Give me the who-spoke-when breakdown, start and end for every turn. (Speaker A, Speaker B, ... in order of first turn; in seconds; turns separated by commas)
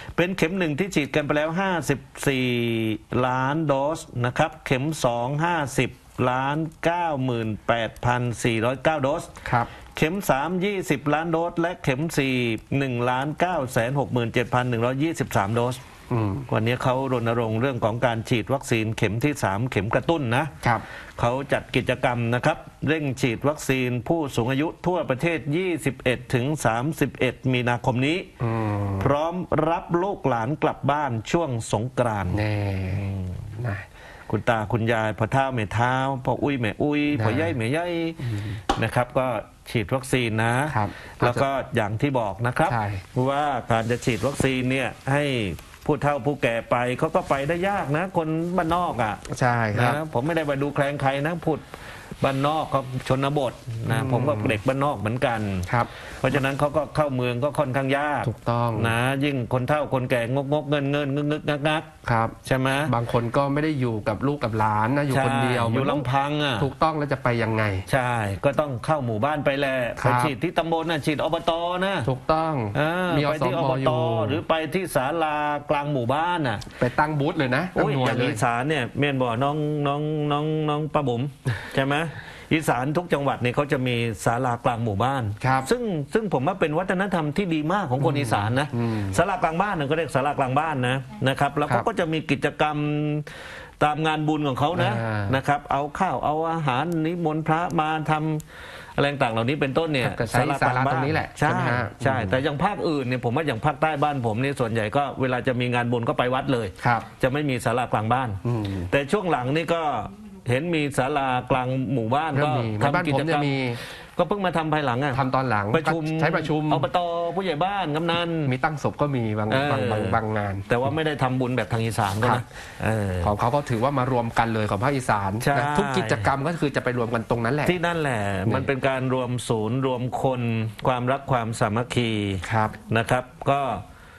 Speaker A: 0.1-9.3, Speaker B: 9.4-9.7, Speaker A: 9.9-15.8, Speaker B: 16.1-16.5, Speaker A: 16.5-20.5, Speaker A: 21.2-28.3, Speaker B: 28.4-29.1, Speaker A: 29.0-32.4, Speaker B: 32.3-33.9, Speaker A: 32.9-33.4, Speaker A: 34.3-49.2, Speaker B: 37.1-37.5, Speaker B: 38.2-38.6, Speaker B: 40.7-41.4, Speaker B: 42.7-43.0, Speaker B: 49.3-50.0, Speaker A: 49.7-51.6, Speaker A: 52.2-61.9, Speaker B: 53.9-54.6, Speaker B: 58.2-58.9, Speaker B: 62.0-62.4, Speaker A: 62.4-62.9, Speaker B: 62.9-66.1, Speaker A: 65.1-66.7, Speaker B: 66.6-67.8, Speaker A: 67.9-72.1, Speaker B: 70.0-70.3, Speaker B: 72.0-74.4, Speaker A: 72.7-76.7, Speaker B: 76.8-78.4, Speaker A: 77.7-93.3, Speaker B: 85.4-85.7, Speaker B: 88.0-89.2, Speaker A: 93.8-98.4, Speaker B: 94.7-95.4, Speaker A: 99.0-113.5, Speaker B: 100.0-102.4, Speaker B: 106.8-107.0, Speaker B: 108.4-108.9, Speaker B: 112.3-113.8, Speaker A: 114.2-115.2, Speaker B: 115.1-116.9, Speaker A: 115.7-118.5, Speaker B: 118.4-120.7, Speaker A: 119.5-120.2, Speaker A: 120.7-123.3, Speaker B: 123.2-127.8, Speaker A: 125.4-126.3, Speaker A: 127.6-133.8, Speaker B: 132.4-132.7